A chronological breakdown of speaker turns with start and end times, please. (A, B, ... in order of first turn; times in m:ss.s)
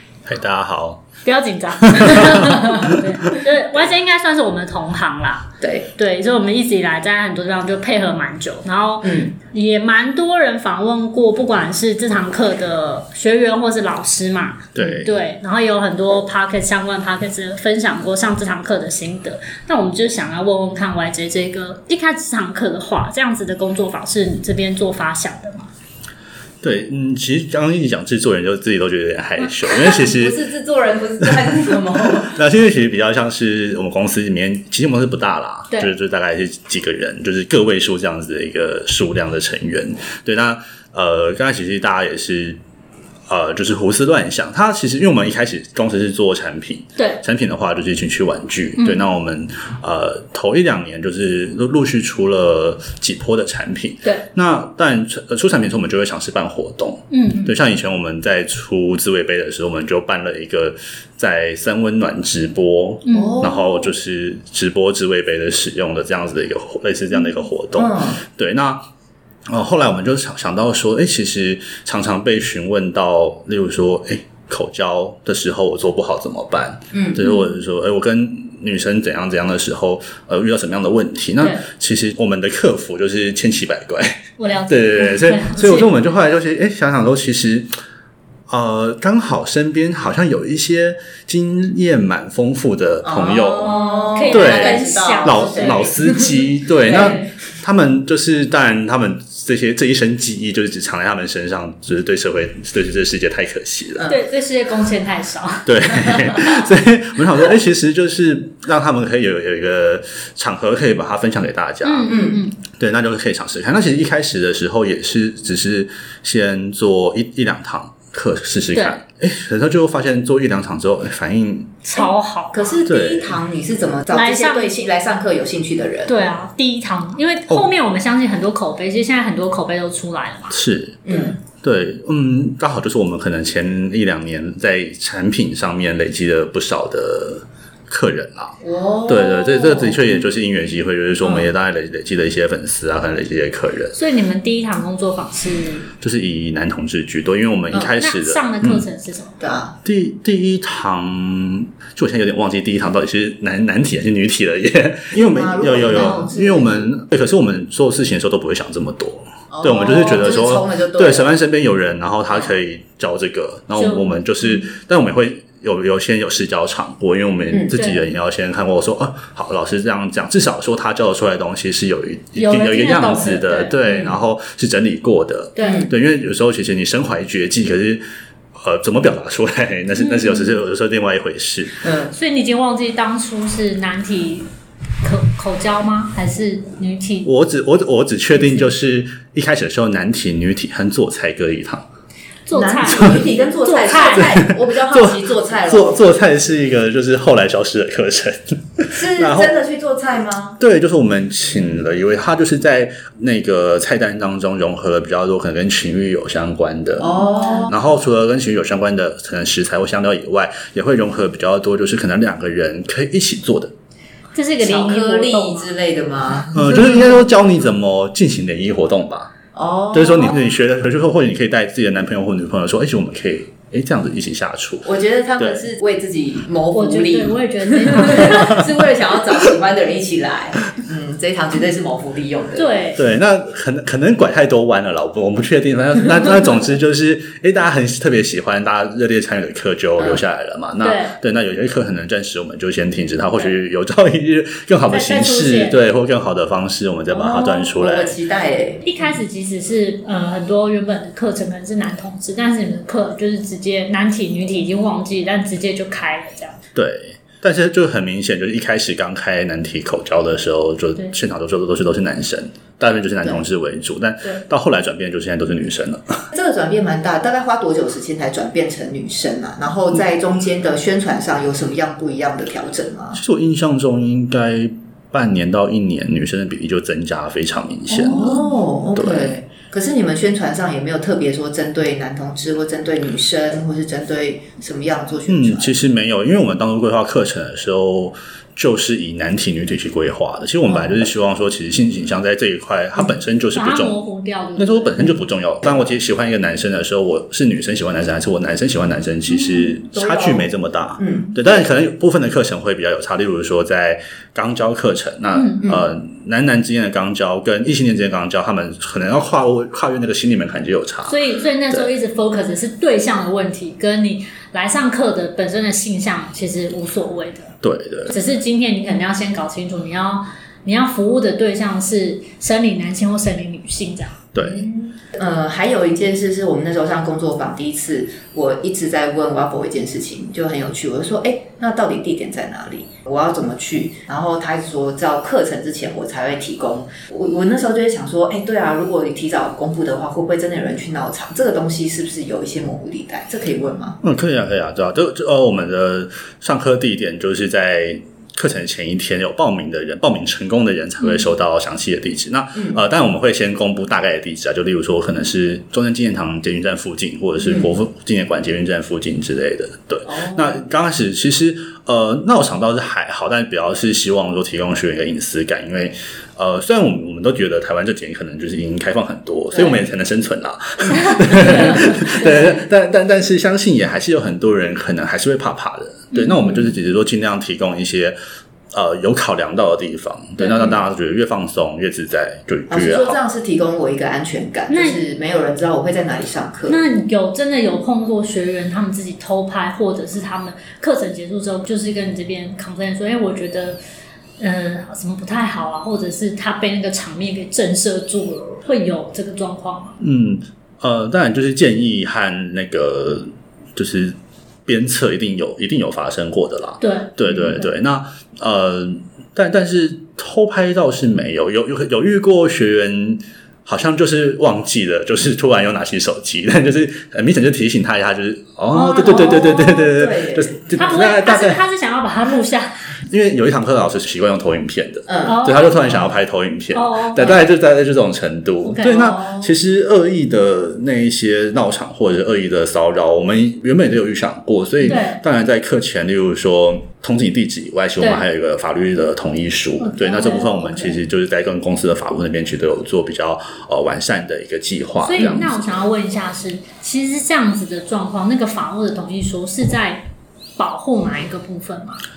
0:00.2-0:01.0 A
0:01.2-0:25.7 B
0:01.8-0:03.0 A
0:05.6-0:05.9 C
0:09.0-0:09.3 C
0:14.7-0:15.1 A
0:26.6-0:30.4 A
0:29.9-0:32.4 C
0:32.2-0:42.6 A
0:43.3-1:08.8 A
0:47.0-0:47.2 B
0:48.8-0:49.0 B
0:57.1-0:57.5 B
1:03.0-1:03.5 B
1:03.1-1:03.7 C
1:07.8-1:08.2 C
1:09.5-1:27.7 A
1:16.9-1:17.2 C
1:24.4-1:25.9 B
1:28.5-1:44.1 A
1:33.0-1:37.2 C
1:33.6-1:36.0 B
1:36.9-1:37.3 B
1:44.0-1:46.6 B
1:45.6-2:01.8 A
1:51.8-1:52.6 B
1:52.0-1:52.4 C
2:01.8-2:02.8 B
2:02.0-2:06.2 C
2:02.8-2:03.4 A
2:04.1-2:04.7 B
2:06.1-2:10.6 B
2:10.5-2:11.0 A
2:11.0-2:11.4 C
2:11.6-2:24.0 A
2:18.6-2:20.1 C
2:21.2-2:21.5 C
2:23.9-2:25.9 B
2:26.0-2:28.8 A
2:28.0-2:29.4 B
2:29.4-2:29.8 C
2:29.8-2:58.0 A
2:35.1-2:36.9 C
2:35.9-2:36.3 B
2:39.5-2:41.3 C
2:43.7-2:44.1 B
2:47.7-2:48.0 B
2:52.4-2:53.8 B
2:53.8-2:54.1 C
2:55.6-2:55.9 B
2:55.6-2:55.9 C
2:58.6-3:01.8 A
3:00.0-3:00.5 B
3:01.8-3:02.1 C
3:02.1-3:04.5 B
3:05.0-3:07.3 B
3:07.2-3:11.8 A
3:08.4-3:08.7 B
3:12.4-3:14.5 B
3:12.5-3:16.2 C
3:14.1-3:19.5 A
3:18.9-3:20.6 C
3:20.6-3:33.7 A
3:27.0-3:27.8 C
3:27.2-3:27.7 B
3:34.3-3:35.7 B
3:34.6-3:37.1 C
3:36.5-3:39.3 A
3:39.5-3:40.4 C
3:39.9-3:45.6 A
3:44.8-3:52.9 C
3:46.7-3:48.7 B
3:52.6-3:53.0 B
3:53.0-4:08.2 A
4:00.8-4:01.2 B
4:04.9-4:05.8 B
4:07.1-4:09.2 C
4:08.8-4:16.6 B
4:16.7-4:26.3 A
4:26.3-4:33.2 C
4:33.1-4:38.1 A
4:38.0-4:38.5 B
4:38.0-4:45.7 C
4:38.9-4:39.3 A
4:45.3-4:54.0 A
4:53.5-4:55.1 B
4:54.6-5:11.2 A
4:59.4-5:01.5 C
5:05.3-5:05.6 B
5:11.1-5:17.6 B
5:17.6-5:18.1 A
5:18.1-5:24.2 B
5:24.3-5:24.7 A
5:24.4-5:44.0 C
5:44.0-6:18.2 A
5:57.4-5:57.7 C
6:00.1-6:00.6 C
6:09.5-6:09.8 C
6:10.9-6:12.6 B
6:11.4-6:11.8 C
6:18.7-6:23.2 A
6:20.4-6:20.7 B
6:22.7-6:26.8 C
6:24.7-6:25.0 B
6:26.7-6:33.8 B
6:34.4-6:40.0 B
6:40.0-7:01.6 A
6:46.8-6:47.2 B
6:58.7-7:00.0 B
6:59.1-7:00.7 C
7:00.7-7:02.9 B
7:03.1-7:25.8 A
7:05.1-7:06.0 C
7:05.2-7:06.0 B
7:06.7-7:07.4 B
7:08.6-7:09.2 B
7:08.9-7:09.5 C
7:14.8-7:15.2 B
7:19.8-7:20.9 B
7:25.0-7:30.1 B
7:30.6-7:32.0 B